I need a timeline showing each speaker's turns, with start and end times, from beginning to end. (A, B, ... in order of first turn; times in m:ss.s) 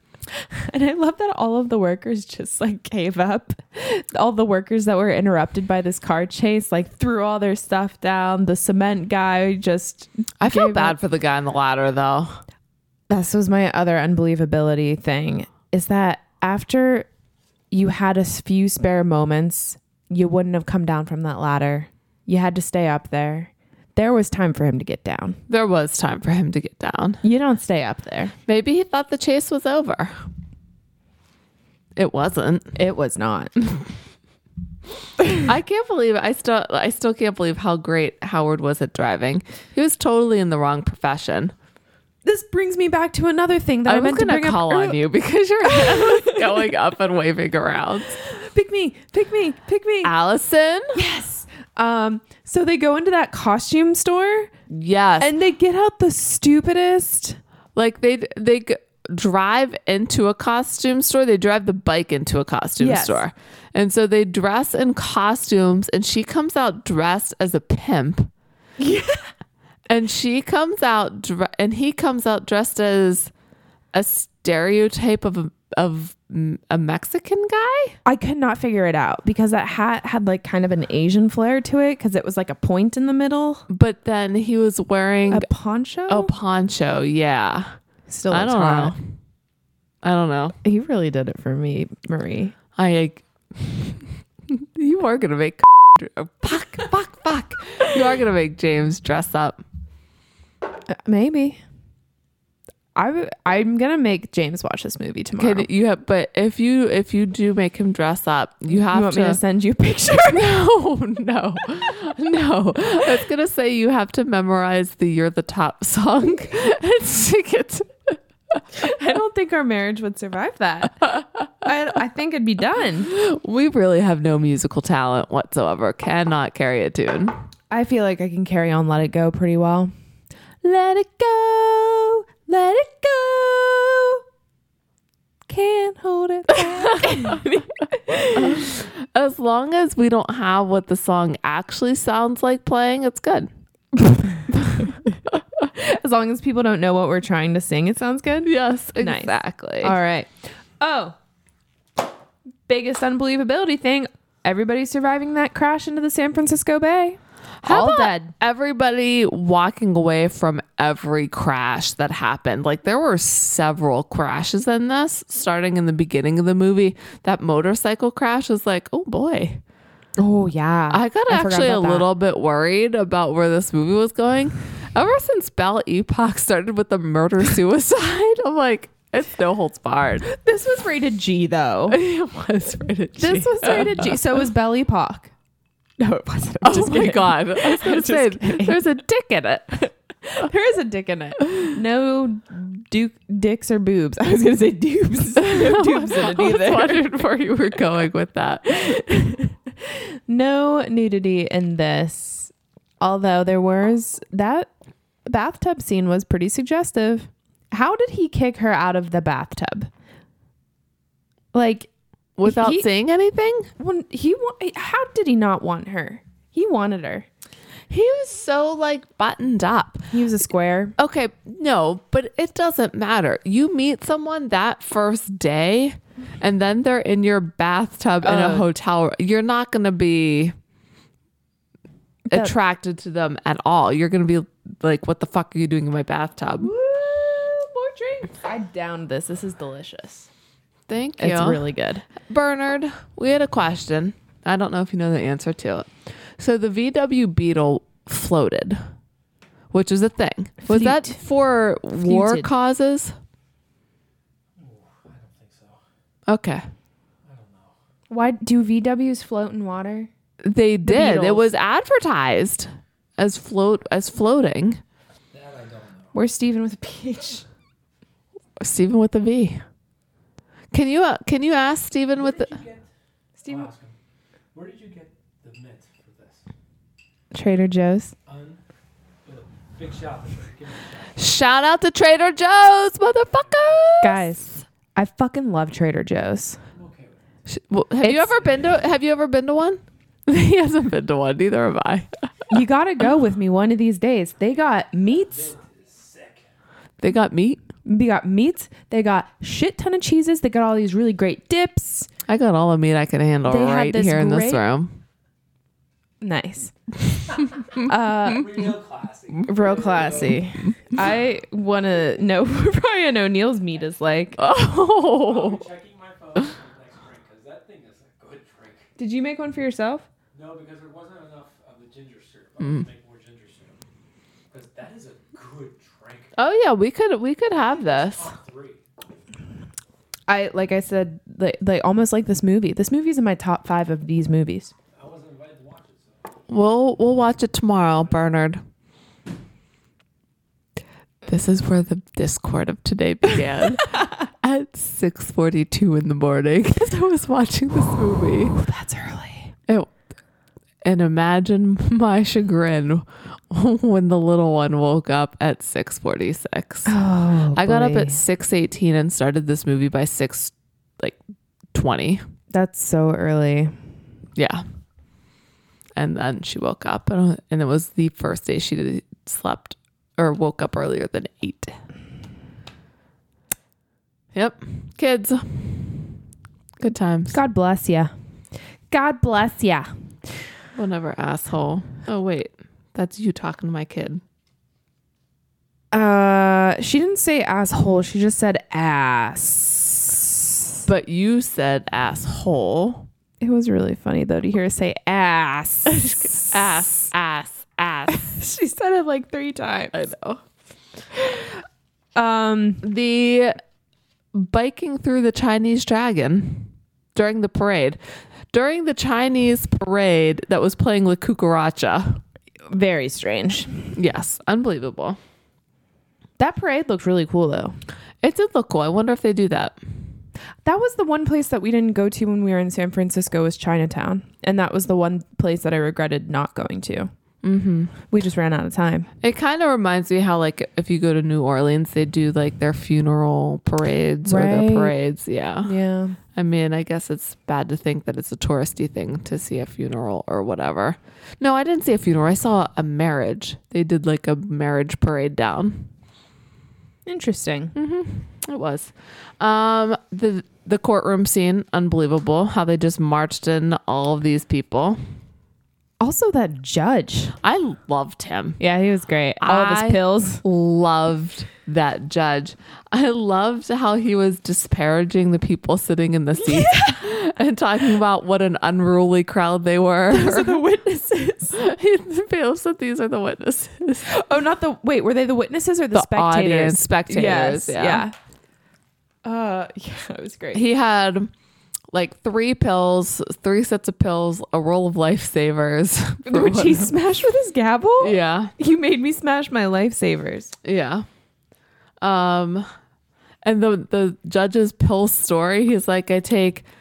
0:00.3-0:11.0 A
0:10.4-0:12.4 B
0:13.1-0:17.1 A
0:17.7-0:25.4 A
0:25.5-0:27.2 B
0:27.2-0:28.3 A
0:28.5-0:30.2 B
0:32.0-0:32.7 B
0:32.8-0:33.8 A
0:35.3-0:41.5 B
0:42.2-0:45.0 A
0:43.8-0:48.2 B
0:45.6-0:46.6 A
0:48.2-0:50.1 A
0:50.0-0:51.0 B
0:50.9-0:54.5 A
0:54.7-0:55.3 B
0:55.2-0:57.4 A
0:57.7-1:08.3 B
1:02.8-1:03.2 A
1:08.8-1:09.3 A
1:09.9-1:13.3 B
1:13.9-1:18.0 B
1:18.0-1:23.6 A
1:23.7-1:25.5 B
1:25.3-1:26.3 A
1:26.1-1:27.7 B
1:28.1-1:28.9 A
1:28.3-1:29.0 B
1:30.0-1:30.6 B
1:30.6-1:32.5 A
1:32.8-1:39.6 B
1:40.9-1:41.6 A
1:42.9-1:45.7 A
1:45.4-1:49.4 B
1:48.9-1:50.5 A
1:50.3-1:58.2 B
1:58.8-2:03.1 A
2:03.0-2:07.4 B
2:07.7-2:09.9 A
2:10.6-2:14.2 A
2:15.5-2:18.7 A
2:17.0-2:17.4 B
2:18.4-2:23.5 B
2:25.7-2:31.1 A
2:28.4-2:30.0 B
2:32.7-2:38.3 A
2:37.6-2:49.6 B
2:50.2-2:52.0 A
2:50.9-3:00.2 B
3:00.3-3:02.0 A
3:01.9-3:04.2 B
3:03.2-3:05.3 A
3:06.0-3:08.8 A
3:06.6-3:09.8 B
3:10.3-3:17.0 A
3:15.4-3:19.0 B
3:18.7-3:24.7 A
3:25.2-3:29.9 A
3:31.5-3:31.9 A
3:32.4-3:33.7 B
3:32.4-3:32.8 A
3:33.8-3:37.3 A
3:37.9-3:40.1 B
3:40.1-3:41.0 A
3:41.0-3:50.5 B
3:48.2-3:48.7 A
3:52.3-3:56.7 B
3:56.6-4:00.3 A
4:00.9-4:01.6 B
4:01.2-4:02.1 A
4:02.2-4:08.8 B
4:09.7-4:13.1 B
4:10.6-4:11.2 A
4:12.0-4:12.5 A
4:14.6-4:15.8 C
4:16.3-4:16.6 B
4:17.2-4:17.7 C
4:18.1-4:20.1 A
4:20.4-4:24.8 B
4:20.8-4:21.5 A
4:25.3-4:26.1 C
4:26.1-4:27.4 A
4:28.6-4:29.6 B
4:30.7-4:32.6 B
4:32.2-4:32.9 C
4:33.4-4:33.7 A
4:33.4-4:34.0 C
4:34.5-4:36.4 C
4:37.3-4:38.1 A
4:38.3-4:38.6 C
4:39.2-4:41.2 C
4:41.2-4:44.3 B
4:43.3-4:43.9 C
4:44.0-4:46.6 A
4:46.7-4:47.2 C
4:47.5-4:52.2 B
4:48.0-4:48.8 C
4:52.5-4:55.5 A
4:55.0-4:56.4 C
4:57.0-4:57.6 B
4:57.8-5:02.1 A
5:02.3-5:05.0 B
5:03.5-5:04.6 A
5:06.2-5:06.7 A
5:07.8-5:08.6 A
5:08.2-5:11.2 C
5:09.5-5:14.4 A
5:14.4-5:15.6 B
5:14.4-5:18.9 C
5:19.0-5:20.0 A
5:20.3-5:23.8 C
5:22.6-5:22.8 B
5:24.5-5:26.3 C
5:26.4-5:28.3 B
5:27.6-5:28.8 C
5:30.3-5:34.7 A
5:34.9-5:36.4 C
5:36.5-5:38.6 B
5:41.2-5:48.6 B
5:48.5-5:49.5 A
5:50.8-5:56.9 B
5:56.8-5:58.2 A
5:57.5-6:01.2 B
6:01.7-6:02.2 B
6:02.5-6:03.7 A
6:04.4-6:04.6 B
6:06.0-6:11.8 B
6:14.3-6:16.1 B
6:16.8-6:17.4 B
6:17.3-6:18.1 A
6:18.9-6:19.9 A
6:20.7-6:24.2 B
6:25.9-6:30.5 A
6:30.8-6:33.1 B
6:33.4-6:36.6 A
6:35.9-6:38.4 B
6:38.1-6:39.9 A
6:39.9-6:40.4 B
6:42.1-6:42.8 A
6:42.8-6:43.6 B
6:44.3-6:48.0 B
6:48.5-6:52.2 B
6:52.7-6:53.8 A
6:53.9-6:55.2 B
6:56.4-6:57.8 A
6:58.2-6:59.8 B
7:00.6-7:07.1 A
7:07.4-7:07.9 B
7:08.1-7:09.1 A
7:09.2-7:15.7 B
7:14.2-7:14.9 A
7:15.6-7:16.2 A
7:16.3-7:25.9 B
7:27.0-7:27.7 A
7:27.7-7:35.0 B
7:36.0-7:37.3 A
7:37.4-7:38.6 B
7:38.6-7:40.4 A
7:39.4-7:50.6 B
7:46.4-7:47.1 A
7:50.1-7:51.6 A
7:51.5-7:54.1 B
7:54.1-7:58.1 A
7:55.9-7:58.0 B
7:59.2-8:00.6 A
8:00.5-8:01.3 B
8:01.9-8:06.9 B
8:06.2-8:10.5 A
8:08.0-8:08.5 B
8:10.6-8:11.0 B
8:12.0-8:12.6 B
8:13.4-8:16.6 B